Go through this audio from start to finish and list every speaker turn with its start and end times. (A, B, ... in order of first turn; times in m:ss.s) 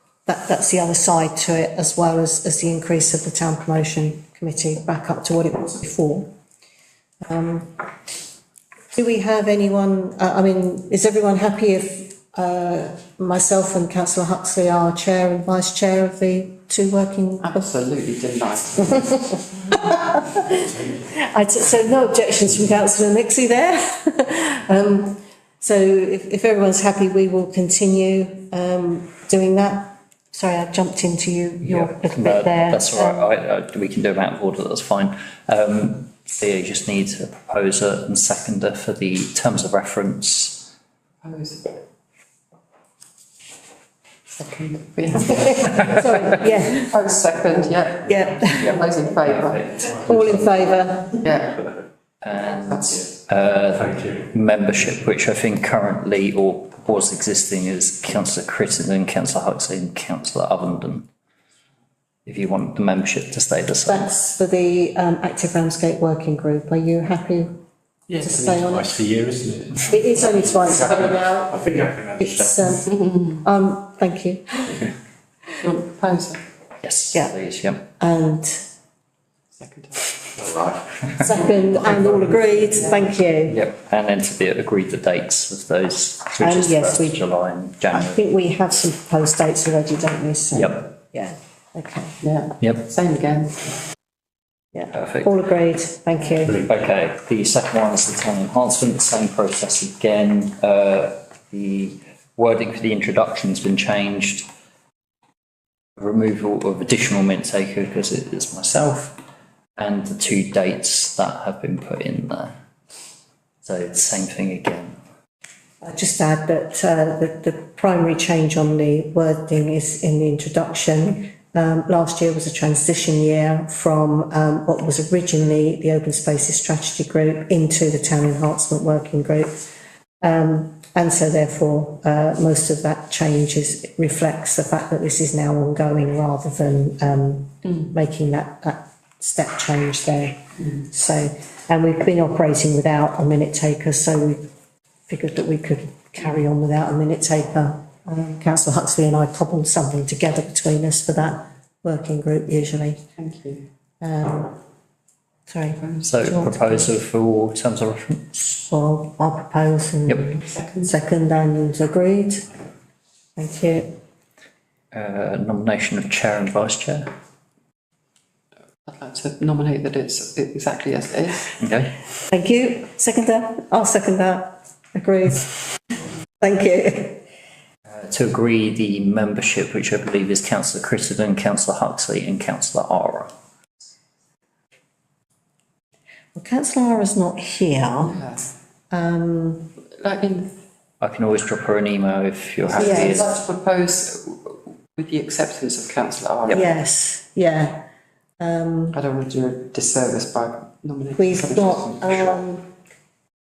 0:00.2-0:06.3 A
0:07.2-0:07.8 A
0:08.9-0:17.6 A
0:17.4-0:19.2 B
0:18.9-0:33.3 A
0:31.6-0:40.7 C
0:41.2-0:41.8 B
0:44.4-0:49.8 B
0:45.2-0:46.9 A
0:48.0-0:48.8 A
0:48.6-0:50.4 C
0:49.8-0:51.2 A
0:51.2-0:51.7 B
0:52.2-1:01.1 C
1:02.2-1:04.1 C
1:03.8-1:07.6 A
1:08.1-1:09.9 D
1:08.2-1:09.1 A
1:09.8-1:14.9 A
1:11.7-1:12.2 D
1:15.6-1:16.4 B
1:16.8-1:17.8 C
1:18.0-1:18.6 A
1:19.6-1:20.6 B
1:21.1-1:23.6 A
1:23.5-1:28.2 C
1:26.4-1:27.2 A
1:27.9-1:32.1 A
1:30.5-1:30.9 C
1:32.2-1:33.8 B
1:32.6-1:32.9 C
1:34.7-1:36.6 A
1:34.9-1:35.3 C
1:36.6-1:44.5 C
1:46.0-1:49.2 C
1:49.8-1:52.5 C
1:53.6-1:55.0 C
1:55.8-2:09.7 A
2:10.2-2:24.5 A
2:25.1-2:33.0 A
2:33.2-2:33.6 B
2:34.0-2:34.5 A
2:35.5-2:36.9 A
2:36.0-2:38.4 C
2:38.4-2:42.5 A
2:43.4-2:43.9 A
2:44.9-2:47.1 C
2:48.8-2:51.5 B
2:51.6-2:51.9 C
2:52.3-2:55.5 A
2:56.4-2:57.2 A
2:57.9-3:03.3 C
3:06.3-3:08.2 A
3:08.1-3:08.4 B
3:08.9-3:09.7 A
3:10.0-3:10.5 B
3:11.0-3:13.4 C
3:12.7-3:16.7 B
3:12.8-3:13.2 A
3:16.5-3:17.8 A
3:18.4-3:19.0 A
3:18.9-3:22.1 B
3:21.2-3:22.7 A